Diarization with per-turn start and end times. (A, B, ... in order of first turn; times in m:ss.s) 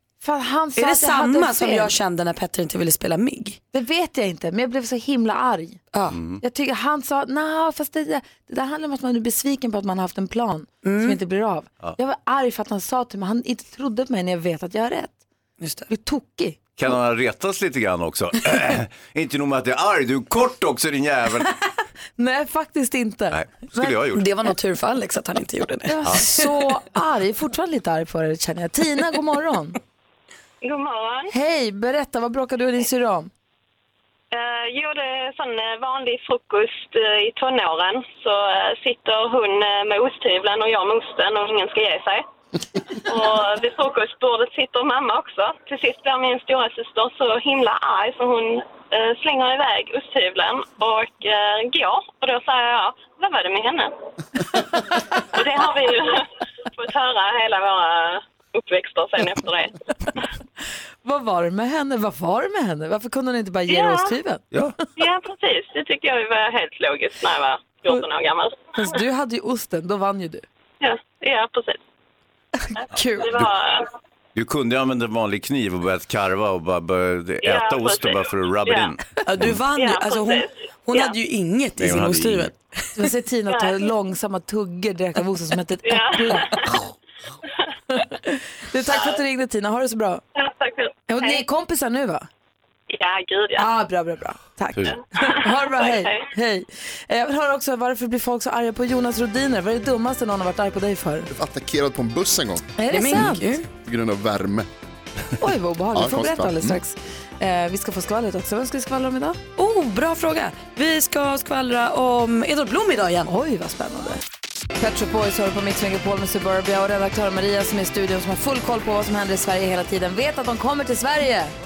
0:00.2-0:01.9 A
0:00.8-0:03.6 B
0:03.7-0:05.8 A
0:05.9-0:06.2 B
0:06.1-0:06.4 C
0:06.4-0:15.2 A
0:10.8-0:11.2 B
0:15.6-0:15.9 B
0:15.9-0:16.6 A
0:16.8-0:21.5 C
0:22.2-0:24.0 A
0:23.3-0:24.3 C
0:24.1-0:26.5 B
0:25.9-0:29.8 A
0:30.6-0:31.3 D
0:31.3-0:33.3 A
0:34.3-0:42.2 D
0:43.0-0:53.9 D
0:54.5-1:00.2 D
1:01.0-1:04.4 A
1:03.7-1:04.1 D
1:05.0-1:08.8 D
1:08.7-1:10.4 A
1:10.8-1:11.8 D
1:12.8-1:13.9 D
1:12.9-1:13.3 A
1:14.3-1:19.6 C
1:17.4-1:18.9 D
1:19.2-1:22.6 B
1:19.7-1:21.2 D
1:21.8-1:22.5 C
1:23.0-1:26.7 A
1:23.5-1:23.9 D
1:25.8-1:26.8 D
1:27.9-1:30.2 A
1:30.3-1:31.4 D
1:31.1-1:32.3 A
1:32.9-1:33.7 D
1:33.6-1:41.3 A
1:35.2-1:36.3 D
1:41.3-1:43.3 E
1:42.8-1:43.4 A
1:42.9-1:43.7 B
1:43.8-1:44.7 E
1:45.4-1:49.4 A
1:45.9-1:46.8 E
1:49.6-1:53.3 B
1:53.3-1:54.2 A
1:54.8-2:01.5 A